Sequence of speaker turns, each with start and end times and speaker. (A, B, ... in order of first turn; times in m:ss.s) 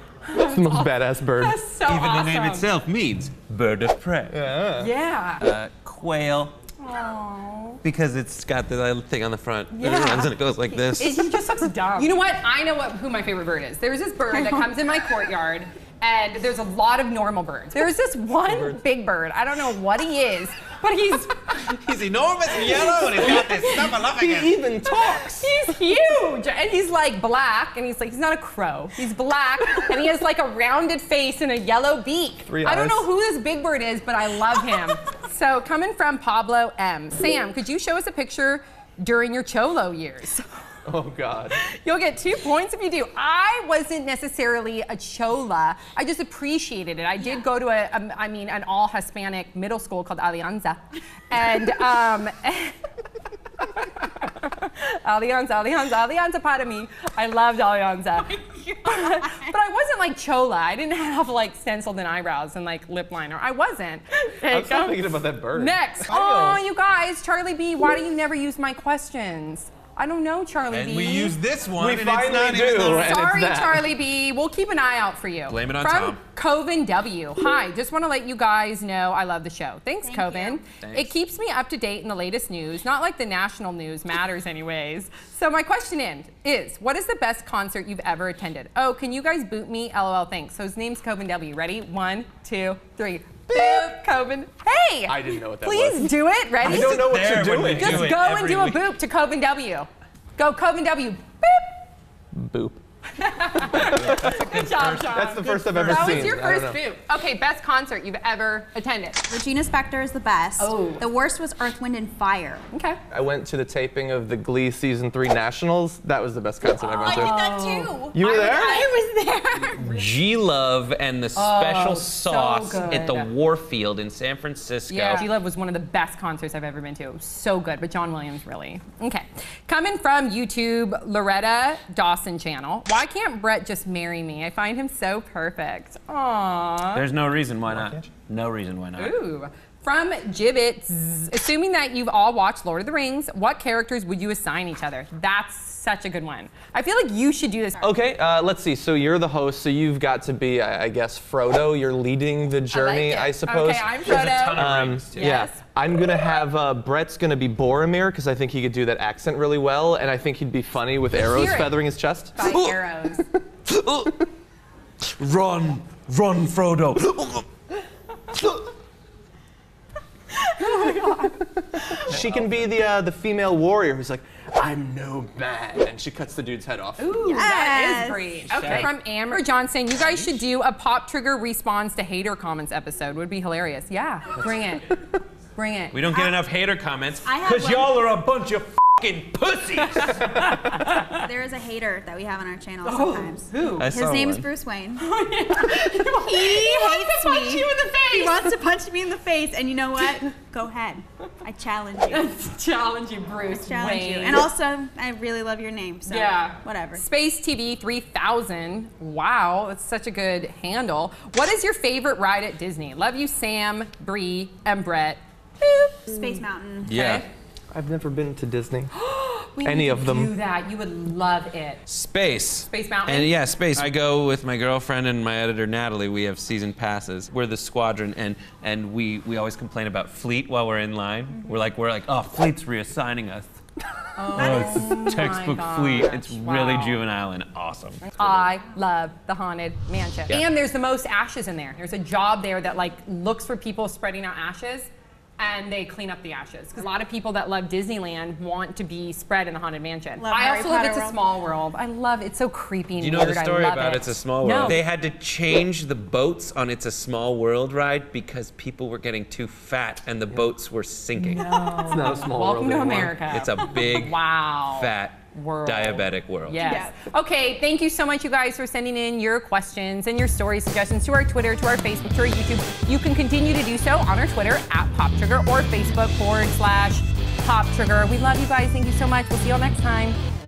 0:00.2-0:02.7 A
0:00.3-0:01.6 B
0:01.9-0:04.4 C
0:04.3-0:04.9 B
0:04.8-0:05.4 A
0:05.4-0:06.6 C
0:06.8-0:07.8 A
0:07.8-0:11.3 C
0:09.7-0:10.3 A
0:10.8-0:21.8 A
0:18.4-0:18.8 B
0:21.6-0:24.6 C
0:22.6-0:23.9 A
0:24.1-0:25.6 B
0:24.9-0:40.4 A
0:32.4-0:33.0 B
0:40.9-0:41.6 B
0:41.6-0:52.8 A
0:53.6-1:11.4 A
0:58.3-0:59.5 D
1:04.5-1:06.6 B
1:10.7-1:13.2 C
1:11.8-1:13.9 B
1:12.8-1:37.1 A
1:15.5-1:16.2 C
1:20.0-1:20.6 D
1:20.8-1:21.1 C
1:33.5-1:33.9 B
1:35.1-1:38.2 B
1:36.6-1:38.8 C
1:37.7-1:41.8 A
1:42.3-1:42.8 B
1:43.2-1:49.3 A
1:43.7-1:46.3 C
1:43.9-1:44.3 B
1:45.1-1:46.8 B
1:49.3-1:52.6 D
1:50.6-1:51.1 A
1:52.7-1:53.0 A
1:53.1-1:57.4 B
1:56.7-2:00.0 D
1:57.0-1:57.9 A
1:58.1-1:58.8 B
1:59.7-2:05.3 C
2:01.3-2:03.3 A
2:04.9-2:17.1 A
2:16.9-2:19.1 C
2:19.0-2:27.8 A
2:27.8-2:42.5 B
2:32.7-2:35.6 A
2:34.0-2:35.3 C
2:41.1-2:41.8 A
2:42.3-2:43.2 A
2:42.4-2:42.8 C
2:43.6-2:44.2 C
2:45.2-2:47.5 C
2:50.4-2:52.0 A
2:51.9-2:57.2 B
2:52.1-2:52.7 C
2:57.0-3:05.0 A
2:57.2-2:58.3 D
2:58.5-2:58.9 C
3:05.6-3:06.1 A
3:05.9-3:10.9 C
3:07.2-3:08.1 D
3:10.2-3:10.9 A
3:11.0-3:15.1 D
3:12.8-3:13.9 A
3:13.8-3:14.5 C
3:15.0-3:18.6 A
3:15.7-3:22.3 D
3:22.1-3:24.5 A
3:23.5-3:27.0 D
3:26.1-3:37.3 A
3:36.1-3:36.9 D
3:36.8-3:37.3 C
3:37.7-3:38.9 B
3:38.9-3:41.8 A
3:39.6-3:40.3 B
3:41.9-3:53.6 C
3:42.7-3:43.4 A
3:54.2-3:57.0 A
3:54.3-3:58.5 C
3:58.0-4:14.8 A
4:10.2-4:11.2 D
4:13.0-4:21.5 C
4:21.2-4:40.2 A
4:21.6-4:23.2 B
4:23.3-4:26.6 C
4:26.5-4:27.0 D